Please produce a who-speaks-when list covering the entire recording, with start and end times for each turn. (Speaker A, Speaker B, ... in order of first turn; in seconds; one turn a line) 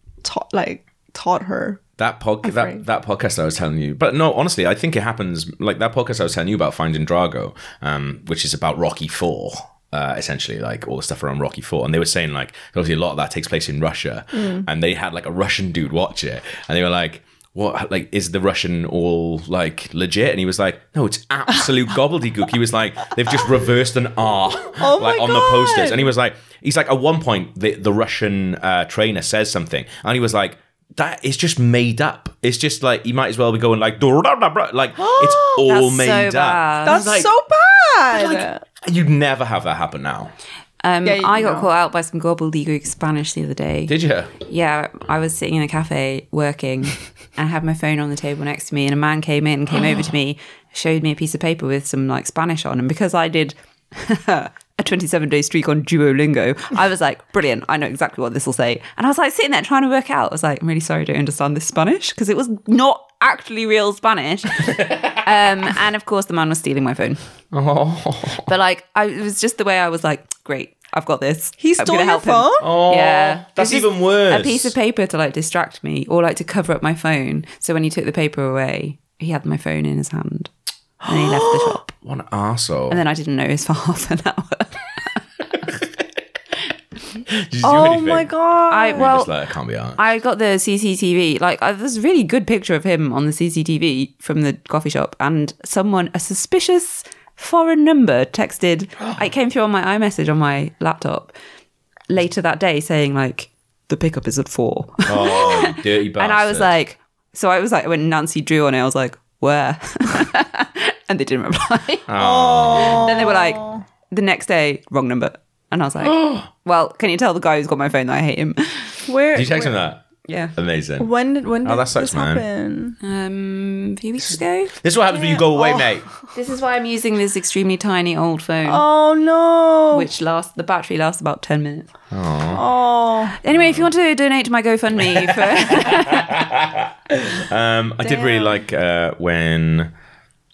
Speaker A: 0.2-1.8
Speaker B: 2.0-37.3
Speaker A: 2.4-2.8
Speaker A: 14.3-14.7
Speaker A: 24.7-26.1
Speaker A: 35.0-35.6
Speaker C: 35.6-37.0
Speaker A: 36.8-38.6
Speaker B: 38.1-40.3
Speaker C: 40.8-67.2
Speaker A: 41.0-41.7
Speaker B: 43.9-44.3
Speaker B: 64.6-65.2
Speaker B: 67.5-68.5
Speaker C: 68.5-80.5
Speaker A: 71.6-72.7
Speaker B: 72.6-74.7
Speaker C: 81.0-81.9
Speaker A: 81.1-81.8
Speaker B: 81.9-83.0
Speaker C: 82.9-85.2
Speaker B: 85.6-86.0
Speaker B: 87.3-88.3
Speaker A: 87.6-89.1
Speaker C: 88.7-89.3
Speaker B: 88.9-90.0
Speaker C: 90.0-101.3
Speaker C: 102.1-112.1
Speaker B: 105.0-106.7
Speaker B: 112.1-113.3
Speaker A: 112.2-113.8
Speaker C: 112.7-119.0
Speaker B: 116.0-116.5
Speaker A: 119.1-119.7
Speaker B: 119.3-121.1
Speaker C: 120.2-120.5
Speaker A: 121.0-123.0
Speaker B: 121.6-122.4
Speaker C: 123.0-124.7
Speaker B: 124.8-126.1
Speaker A: 125.2-126.1
Speaker C: 126.3-128.8
Speaker A: 128.7-130.1
Speaker C: 129.9-131.9
Speaker B: 132.1-132.6
Speaker A: 132.5-133.3
Speaker C: 133.4-136.4
Speaker B: 133.5-133.9
Speaker B: 135.2-139.9
Speaker A: 138.0-138.6